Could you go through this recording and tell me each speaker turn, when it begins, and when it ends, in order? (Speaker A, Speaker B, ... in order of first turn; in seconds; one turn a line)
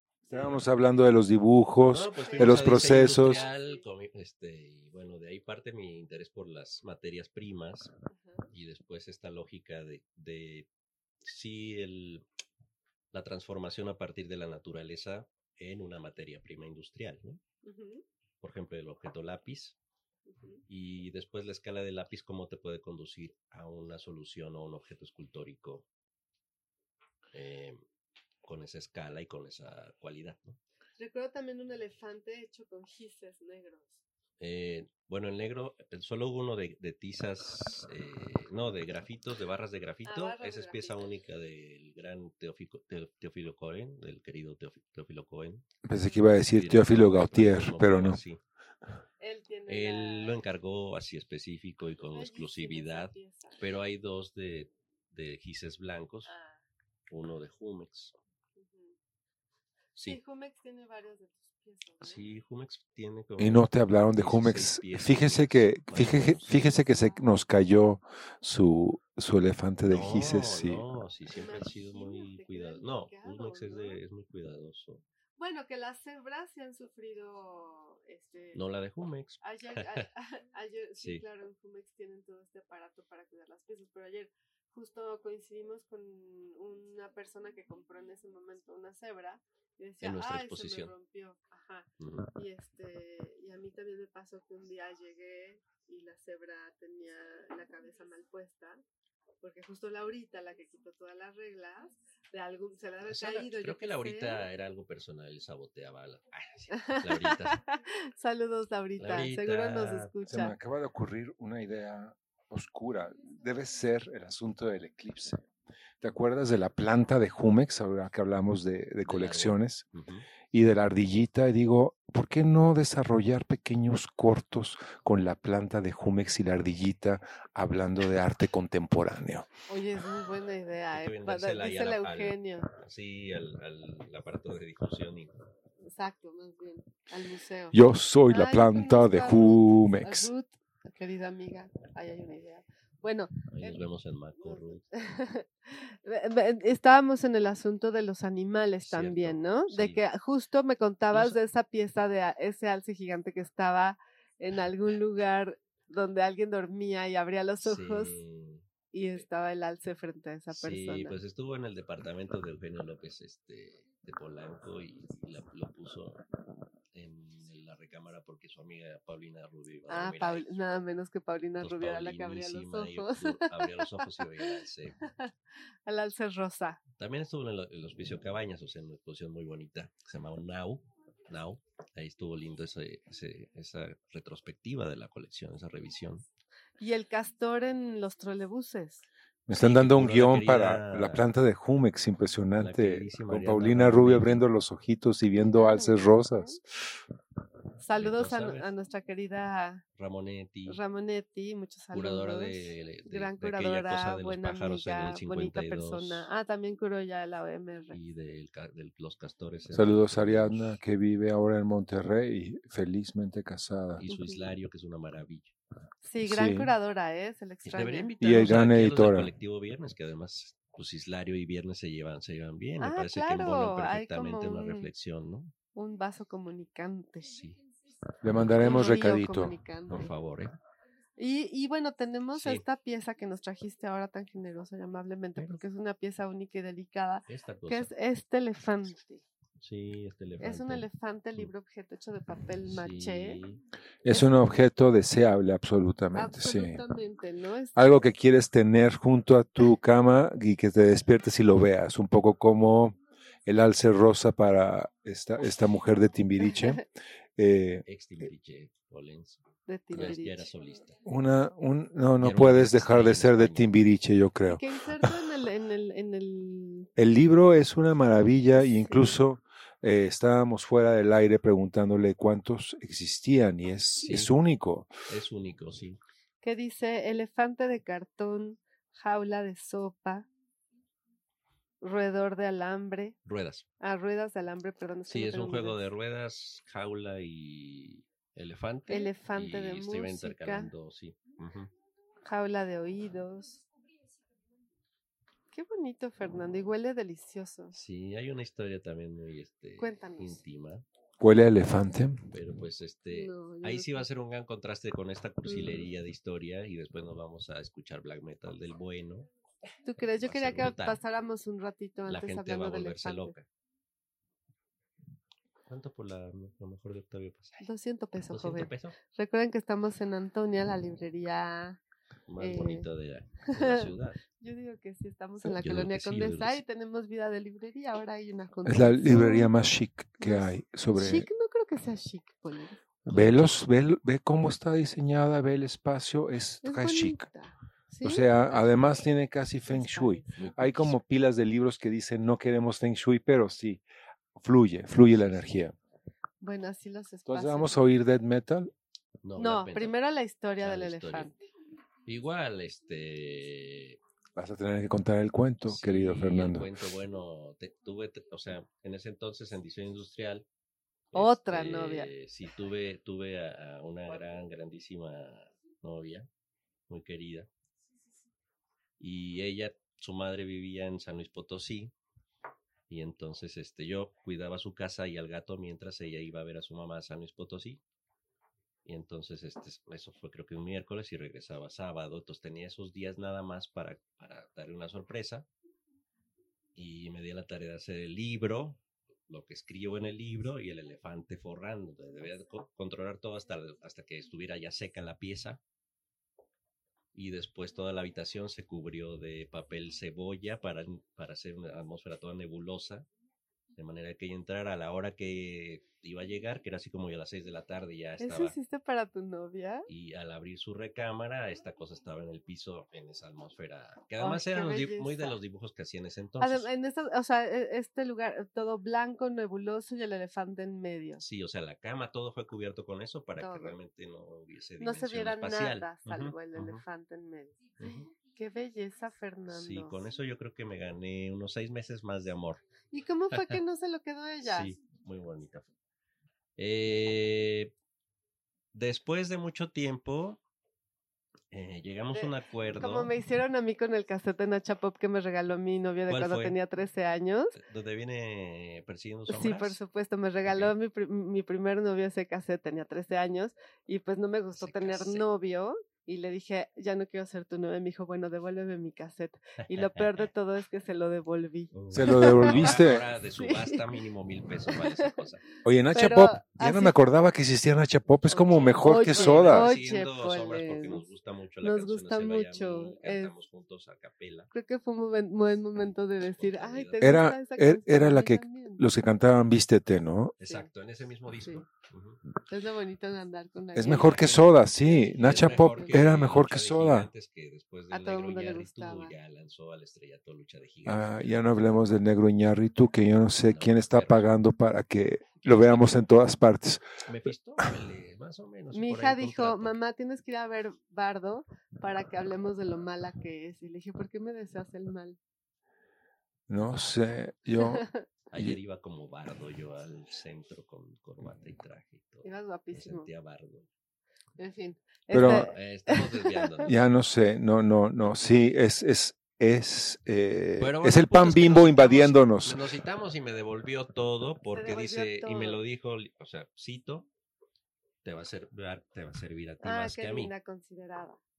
Speaker A: 0.2-0.6
Speaker B: 0.3-3.5
Speaker C: 1.9-7.9
Speaker A: 2.2-3.8
Speaker A: 8.1-8.5
Speaker C: 8.5-10.7
Speaker C: 11.2-12.2
Speaker C: 13.1-17.4
Speaker A: 17.6-18.0
Speaker C: 18.4-19.8
Speaker A: 20.3-20.6
Speaker C: 20.7-25.9
Speaker C: 27.3-27.8
Speaker C: 28.4-30.6
Speaker A: 31.0-34.0
Speaker C: 34.4-45.7
Speaker A: 40.0-41.1
Speaker B: 45.8-48.2
Speaker A: 46.0-46.3
Speaker C: 46.5-48.4
Speaker A: 49.2-50.4
Speaker C: 49.7-56.3
Speaker A: 52.1-53.6
Speaker A: 56.2-56.6
Speaker C: 57.1-58.1
Speaker A: 58.5-58.9
Speaker A: 60.0-62.2
Speaker C: 62.0-66.8
Speaker B: 63.4-70.8
Speaker C: 69.9-75.0
Speaker A: 71.3-74.0
Speaker A: 75.4-78.6
Speaker C: 78.5-80.0
Speaker A: 79.4-98.8
Speaker C: 90.0-90.9
Speaker C: 92.0-92.3
Speaker A: 99.4-104.4
Speaker C: 103.1-107.6
Speaker A: 106.7-110.5
Speaker C: 109.0-110.1
Speaker B: 110.3-115.4
Speaker B: 116.0-119.9
Speaker C: 119.0-120.3
Speaker B: 120.5-129.5
Speaker A: 129.7-132.7
Speaker C: 130.9-135.3
Speaker A: 135.8-143.8
Speaker B: 137.7-140.3
Speaker C: 143.5-144.8
Speaker A: 144.4-158.2
Speaker C: 148.8-150.0
Speaker C: 157.6-158.6
Speaker A: 158.9-161.2
Speaker C: 160.5-166.2
Speaker C: 166.9-170.6
Speaker A: 169.9-175.3
Speaker C: 171.6-174.9
Speaker A: 175.9-176.8
Speaker C: 177.0-186.2
Speaker A: 186.8-189.1
Speaker B: 189.5-196.6
Speaker C: 189.5-191.3
Speaker C: 192.6-194.4
Speaker A: 195.4-196.6
Speaker A: 197.8-199.8
Speaker C: 198.0-198.7
Speaker C: 200.0-200.8
Speaker A: 200.7-208.0
Speaker C: 201.9-206.3
Speaker C: 207.9-210.8
Speaker B: 209.7-214.0
Speaker C: 214.0-215.5
Speaker A: 214.1-214.5
Speaker A: 216.0-218.5
Speaker B: 216.2-216.7
Speaker C: 217.6-225.5
Speaker B: 218.2-219.3
Speaker A: 222.8-224.9
Speaker A: 225.7-227.3
Speaker C: 227.3-227.6
Speaker B: 228.2-229.5
Speaker C: 228.3-228.9
Speaker A: 228.6-230.1
Speaker C: 229.9-230.6
Speaker A: 231.2-239.2
Speaker C: 232.3-232.6
Speaker C: 235.4-235.6
Speaker C: 237.3-237.9
Speaker C: 239.6-240.8
Speaker A: 240.4-243.4
Speaker C: 242.6-243.6
Speaker B: 244.0-246.8
Speaker A: 246.1-248.0
Speaker B: 247.7-256.8
Speaker A: 256.4-256.8
Speaker B: 257.4-257.8
Speaker C: 257.9-261.0
Speaker A: 259.7-260.5
Speaker B: 261.1-265.3
Speaker C: 262.2-263.7
Speaker A: 264.5-266.9
Speaker B: 267.0-274.9
Speaker A: 268.7-269.1
Speaker C: 274.1-274.3
Speaker C: 275.1-276.0
Speaker A: 276.4-280.3
Speaker A: 281.8-283.1
Speaker C: 283.3-283.6
Speaker A: 283.8-285.8
Speaker C: 285.1-291.7
Speaker A: 288.9-290.7
Speaker A: 292.2-293.6
Speaker A: 295.5-297.7
Speaker C: 297.7-300.8
Speaker A: 299.8-300.4
Speaker B: 301.2-302.2
Speaker C: 302.3-309.3
Speaker A: 303.1-304.1
Speaker A: 305.5-305.8
Speaker A: 309.8-313.4
Speaker C: 310.2-311.0
Speaker C: 312.1-313.4
Speaker C: 315.7-317.6
Speaker A: 317.6-321.8
Speaker C: 318.3-319.0
Speaker C: 322.3-324.2
Speaker A: 322.4-322.9
Speaker A: 323.5-329.5
Speaker C: 325.4-326.6
Speaker B: 328.6-331.3
Speaker A: 330.2-332.8
Speaker B: 333.1-337.3
Speaker C: 333.1-333.6
Speaker A: 336.6-338.9
Speaker B: 338.0-343.8
Speaker A: 339.7-340.4
Speaker C: 340.3-340.9
Speaker B: 344.4-345.7
Speaker C: 345.0-345.5
Speaker A: 346.4-347.9
Speaker B: 347.3-348.7
Speaker C: 349.2-350.0
Speaker A: 349.4-351.4
Speaker C: 350.6-351.3
Speaker C: 352.1-354.0
Speaker B: 354.4-356.7
Speaker C: 355.6-360.5
Speaker C: 361.1-366.3
Speaker A: 361.1-362.1
Speaker C: 366.9-367.5
Speaker C: 369.0-371.9
Speaker C: 372.9-377.8
Speaker C: 378.8-385.5
Speaker C: 386.7-395.6
Speaker C: 397.1-403.1
Speaker C: 403.8-408.6
Speaker A: 408.2-409.9
Speaker C: 409.9-416.7
Speaker A: 414.2-415.4
Speaker A: 416.4-421.2
Speaker C: 421.2-426.8
Speaker A: 423.4-423.8
Speaker A: 424.8-430.0
Speaker C: 427.8-428.1
Speaker C: 429.5-432.6
Speaker A: 432.9-434.7
Speaker C: 434.4-435.7
Speaker C: 436.6-437.7
Speaker C: 438.7-440.4
Speaker C: 441.5-443.1
Speaker A: 442.1-447.6
Speaker C: 446.1-446.6
Speaker C: 447.6-449.8
Speaker A: 449.3-462.8
Speaker C: 454.6-455.3
Speaker C: 459.7-460.2
Speaker C: 461.7-465.4
Speaker B: 461.9-463.1
Speaker A: 463.4-463.9
Speaker A: 464.7-465.1
Speaker B: 465.6-469.7
Speaker A: 465.9-467.0
Speaker A: 468.3-471.1
Speaker C: 468.3-474.5
Speaker A: 471.6-473.3
Speaker A: 474.5-478.8
Speaker C: 476.4-477.2
Speaker B: 477.0-480.3
Speaker C: 480.4-482.2
Speaker A: 482.5-484.6
Speaker B: 483.7-487.1
Speaker C: 483.9-491.6
Speaker A: 485.4-485.9
Speaker A: 487.9-489.1
Speaker B: 490.8-496.9
Speaker C: 493.5-494.3
Speaker C: 495.4-496.0
Speaker C: 497.1-499.7
Speaker A: 498.7-505.2
Speaker B: 506.5-507.8
Speaker A: 507.6-508.1
Speaker C: 508.3-513.6
Speaker A: 512.2-513.1
Speaker A: 514.4-516.7
Speaker B: 515.1-515.5
Speaker C: 515.5-516.7
Speaker B: 516.6-522.6
Speaker C: 520.6-527.1
Speaker A: 524.5-525.6
Speaker C: 528.0-530.3
Speaker A: 529.6-531.2